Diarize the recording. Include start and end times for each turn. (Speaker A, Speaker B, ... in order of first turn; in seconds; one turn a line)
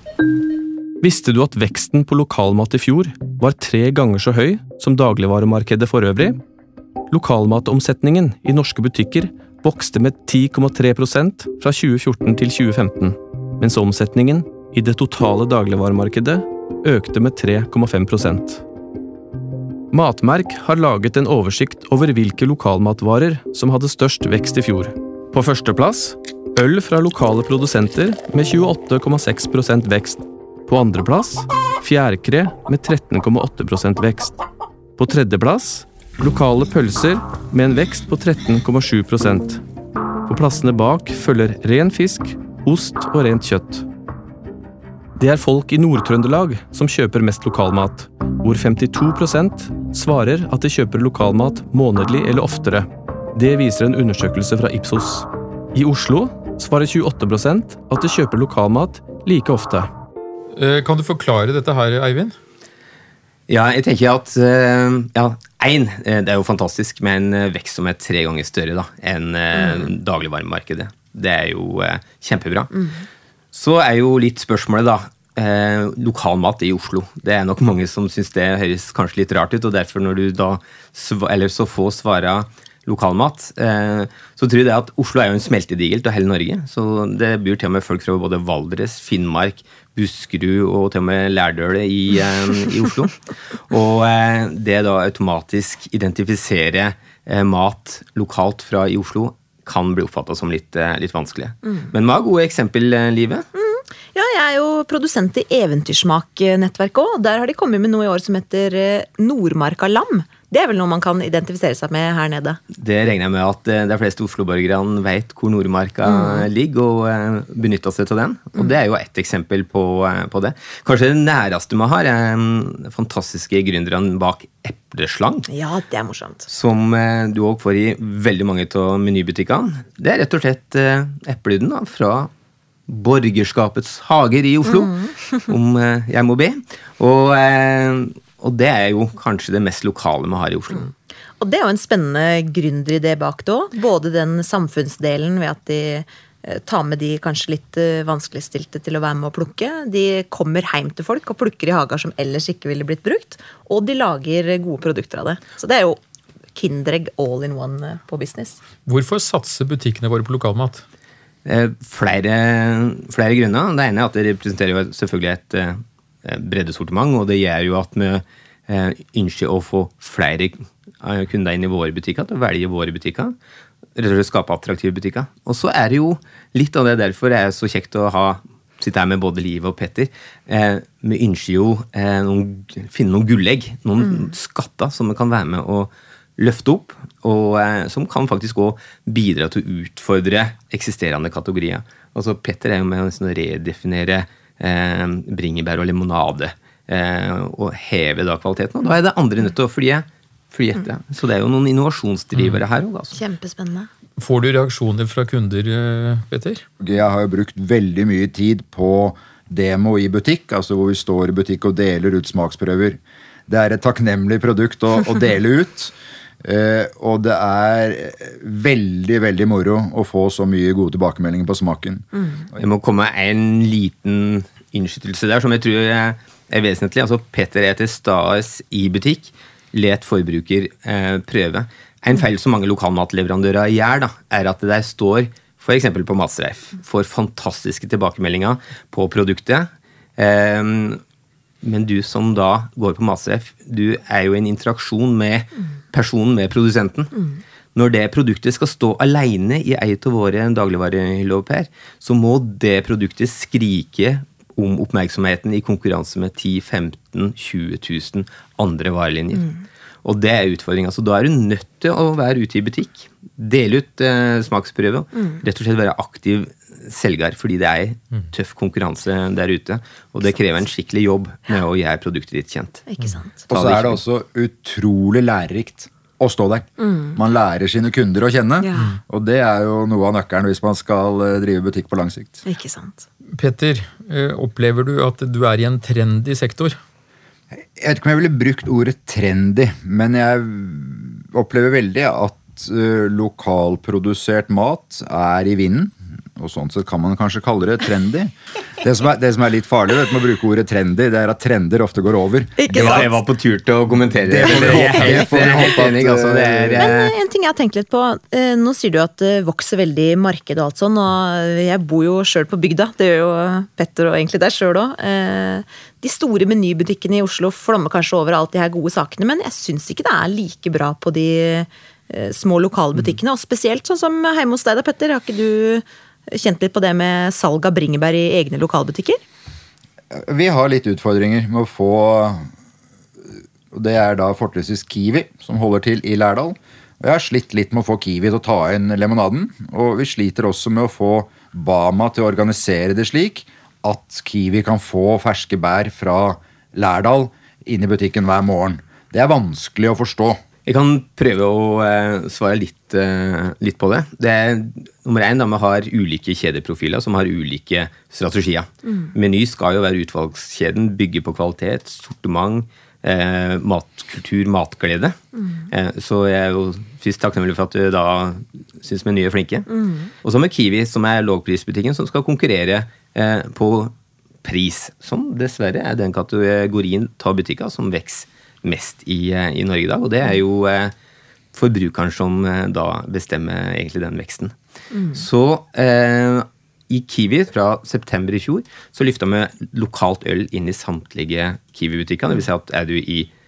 Speaker A: 1.0-6.4
Speaker A: 7.1-18.6
Speaker A: 19.9-34.4
Speaker A: 35.0-39.6
Speaker A: 40.3-43.9
Speaker A: 45.2-59.9
Speaker B: 60.6-62.4
Speaker C: 63.5-72.9
Speaker C: 73.5-103.5
Speaker D: 103.5-112.6
Speaker C: 112.8-125.5
Speaker D: 116.0-116.5
Speaker D: 125.5-126.5
Speaker C: 126.5-132.3
Speaker C: 132.9-134.9
Speaker D: 134.7-135.3
Speaker C: 135.5-140.9
Speaker D: 141.4-156.0
Speaker D: 156.6-158.6
Speaker B: 158.9-160.8
Speaker C: 161.5-173.3
Speaker C: 174.0-203.2
Speaker D: 203.1-203.9
Speaker B: 204.2-206.7
Speaker E: 206.8-215.9
Speaker E: 216.4-222.2
Speaker C: 222.6-241.0
Speaker C: 241.6-272.9
Speaker D: 272.9-273.4
Speaker C: 273.5-274.0
Speaker E: 273.5-282.4
Speaker D: 276.8-277.2
Speaker D: 278.6-279.0
Speaker D: 282.4-283.1
Speaker B: 283.4-286.8
Speaker E: 287.8-303.0
Speaker D: 302.6-303.2
Speaker C: 302.7-307.1
Speaker E: 304.2-306.9
Speaker D: 306.8-329.2
Speaker E: 330.1-332.4
Speaker E: 333.7-350.4
Speaker C: 350.7-365.2
Speaker C: 365.7-373.9
Speaker C: 374.4-380.9
Speaker C: 381.5-384.5
Speaker C: 385.1-393.3